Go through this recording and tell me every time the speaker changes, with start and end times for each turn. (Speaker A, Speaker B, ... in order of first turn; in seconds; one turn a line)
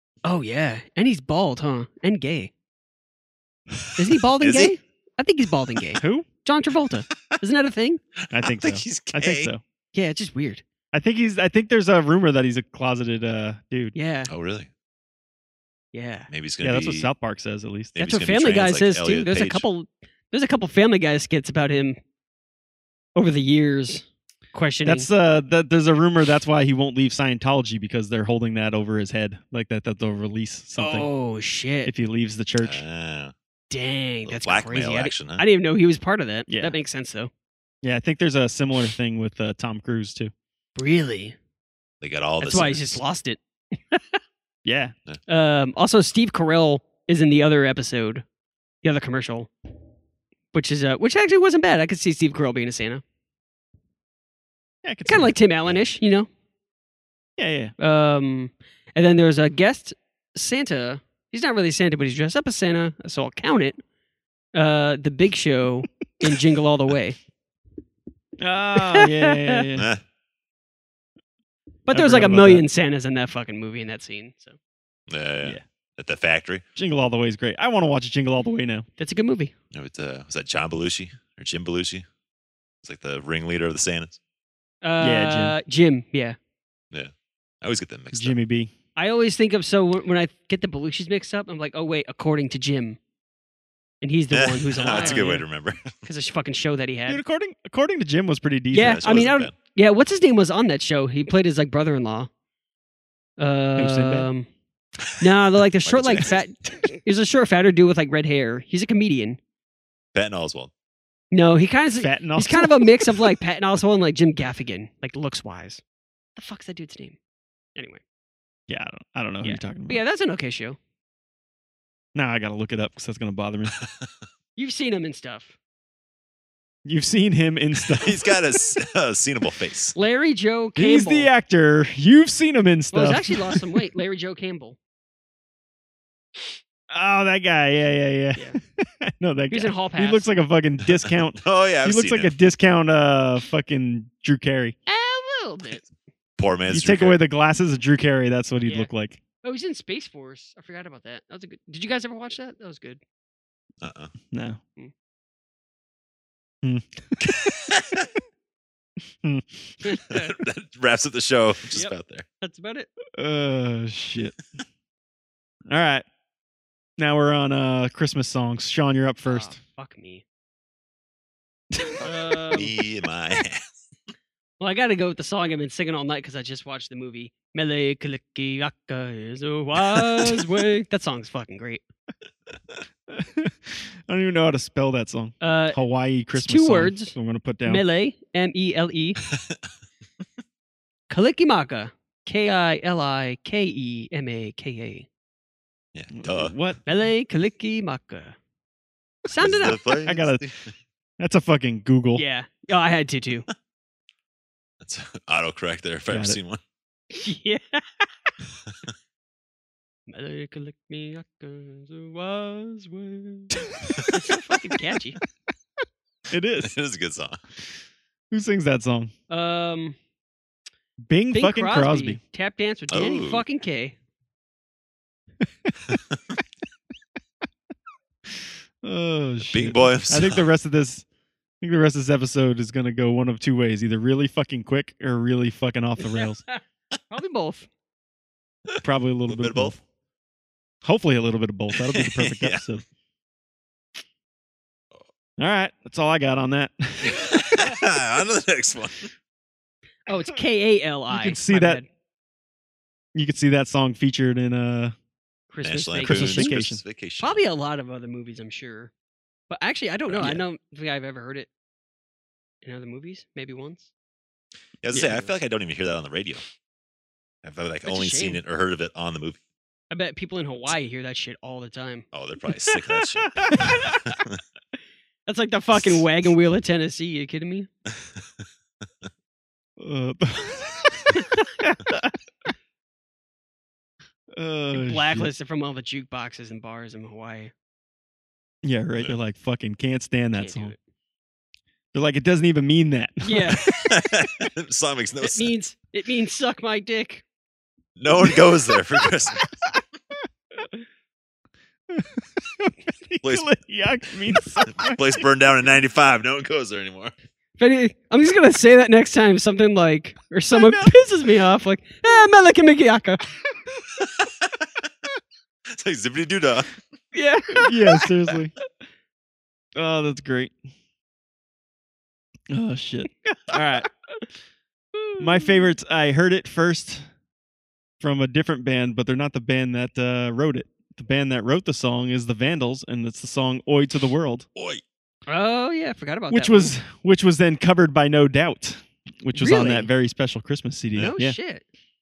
Speaker A: 0.2-2.5
Speaker A: 4.0-8.0
Speaker B: 4.4-4.7
Speaker C: 6.0-6.3
Speaker B: 8.3-9.5
Speaker C: 8.3-9.6
Speaker A: 9.9-10.6
Speaker C: 10.9-13.9
Speaker A: 13.9-14.3
Speaker B: 14.3-14.7
Speaker A: 15.9-16.3
Speaker B: 16.3-17.1
Speaker C: 16.6-17.9
Speaker B: 17.9-19.6
Speaker A: 18.0-22.0
Speaker A: 23.1-25.1
Speaker C: 24.8-31.1
Speaker A: 30.8-31.9
Speaker C: 31.9-32.8
Speaker B: 32.6-33.3
Speaker A: 33.7-37.3
Speaker B: 34.2-35.4
Speaker C: 36.5-36.8
Speaker C: 37.8-40.3
Speaker A: 40.8-41.4
Speaker B: 42.0-43.0
Speaker A: 42.4-44.2
Speaker C: 44.6-44.9
Speaker A: 45.3-48.2
Speaker A: 48.8-49.5
Speaker A: 50.5-53.0
Speaker C: 54.8-55.3
Speaker A: 55.0-56.3
Speaker C: 57.4-57.7
Speaker A: 57.8-63.8
Speaker A: 64.5-67.2
Speaker C: 68.4-69.9
Speaker A: 68.8-69.6
Speaker B: 69.8-70.0
Speaker A: 71.9-74.6
Speaker C: 71.9-72.7
Speaker B: 75.1-76.6
Speaker C: 76.8-78.9
Speaker A: 79.0-79.5
Speaker B: 79.7-82.0
Speaker B: 82.8-84.2
Speaker A: 84.8-86.4
Speaker C: 85.0-85.5
Speaker B: 86.9-88.3
Speaker C: 88.1-88.7
Speaker A: 89.0-93.0
Speaker A: 94.0-95.4
Speaker B: 94.3-95.9
Speaker C: 94.8-95.3
Speaker A: 96.0-97.2
Speaker C: 97.1-99.1
Speaker A: 98.7-102.3
Speaker B: 98.8-99.5
Speaker A: 103.4-104.5
Speaker C: 103.8-104.3
Speaker A: 105.2-109.4
Speaker B: 105.8-106.4
Speaker B: 110.1-110.7
Speaker A: 111.3-115.8
Speaker C: 111.9-113.1
Speaker A: 116.3-117.2
Speaker A: 117.8-118.0
Speaker C: 118.7-120.0
Speaker A: 119.4-120.8
Speaker C: 122.1-123.7
Speaker B: 123.8-124.1
Speaker A: 124.5-125.5
Speaker C: 126.8-128.4
Speaker B: 127.9-129.9
Speaker A: 129.9-131.3
Speaker C: 130.8-133.6
Speaker A: 132.9-134.8
Speaker C: 136.9-144.8
Speaker A: 139.5-140.4
Speaker B: 140.9-142.3
Speaker A: 144.9-145.8
Speaker B: 146.4-147.2
Speaker C: 146.7-149.2
Speaker A: 148.6-148.9
Speaker A: 149.4-153.0
Speaker B: 153.8-154.1
Speaker C: 154.3-154.6
Speaker C: 156.6-157.6
Speaker B: 157.4-158.1
Speaker C: 159.2-159.8
Speaker A: 159.8-160.4
Speaker B: 160.1-162.2
Speaker A: 161.7-162.9
Speaker C: 163.2-164.3
Speaker C: 165.7-166.0
Speaker C: 167.0-169.6
Speaker A: 169.2-170.2
Speaker C: 171.7-172.1
Speaker A: 172.0-172.7
Speaker B: 172.5-173.8
Speaker A: 174.6-181.8
Speaker B: 179.9-180.4
Speaker C: 183.1-187.8
Speaker A: 185.4-185.8
Speaker A: 186.3-189.2
Speaker B: 189.3-189.6
Speaker A: 191.1-195.1
Speaker B: 195.9-196.5
Speaker C: 196.2-196.8
Speaker A: 196.8-198.4
Speaker A: 199.3-199.8
Speaker B: 199.4-200.7
Speaker C: 200.0-200.4
Speaker C: 201.2-202.2
Speaker A: 202.2-203.5
Speaker B: 204.8-206.6
Speaker C: 206.1-206.4
Speaker A: 207.1-208.1
Speaker A: 210.1-215.2
Speaker C: 213.7-214.0
Speaker C: 216.3-216.7
Speaker B: 216.6-217.4
Speaker C: 218.3-219.1
Speaker A: 219.3-220.0
Speaker C: 221.1-222.2
Speaker A: 221.3-223.9
Speaker B: 222.9-223.4
Speaker C: 225.4-225.7
Speaker B: 225.9-226.2
Speaker C: 228.8-231.0
Speaker B: 229.4-230.5
Speaker C: 231.6-236.4
Speaker A: 236.0-237.7
Speaker B: 238.7-239.7
Speaker C: 238.8-239.8
Speaker C: 240.8-242.8
Speaker B: 241.7-242.6
Speaker C: 245.4-247.6
Speaker B: 247.0-249.1
Speaker A: 250.1-251.9
Speaker C: 251.1-251.8
Speaker C: 253.1-254.9
Speaker A: 255.5-256.6
Speaker B: 255.6-257.4
Speaker C: 256.0-256.8
Speaker A: 257.2-258.9
Speaker A: 259.5-261.5
Speaker B: 260.1-260.4
Speaker A: 262.6-263.9
Speaker B: 264.8-266.4
Speaker B: 267.4-269.4
Speaker A: 267.9-268.4
Speaker A: 269.9-272.9
Speaker B: 272.1-274.4
Speaker C: 273.4-273.9
Speaker A: 273.5-274.0
Speaker A: 275.2-277.7
Speaker C: 279.8-282.1
Speaker A: 281.1-281.4
Speaker C: 284.3-285.3
Speaker A: 284.7-287.5
Speaker C: 288.6-290.7
Speaker A: 290.4-290.8
Speaker C: 291.9-294.5
Speaker A: 293.2-293.7
Speaker B: 293.6-295.5
Speaker A: 295.2-297.2
Speaker B: 298.0-299.5
Speaker C: 298.2-298.4
Speaker C: 301.9-305.2
Speaker B: 303.2-303.5
Speaker B: 304.6-307.1
Speaker A: 307.6-313.3
Speaker C: 310.5-310.9
Speaker B: 314.0-314.5
Speaker B: 315.7-316.8
Speaker A: 317.1-318.1
Speaker C: 317.6-318.5
Speaker C: 319.7-320.6
Speaker C: 322.5-323.9
Speaker A: 323.3-324.2
Speaker A: 324.9-325.7
Speaker C: 325.2-327.1
Speaker C: 328.0-334.5
Speaker B: 334.6-334.8
Speaker A: 335.3-336.7
Speaker C: 336.3-341.4
Speaker A: 339.3-339.9
Speaker A: 341.0-341.6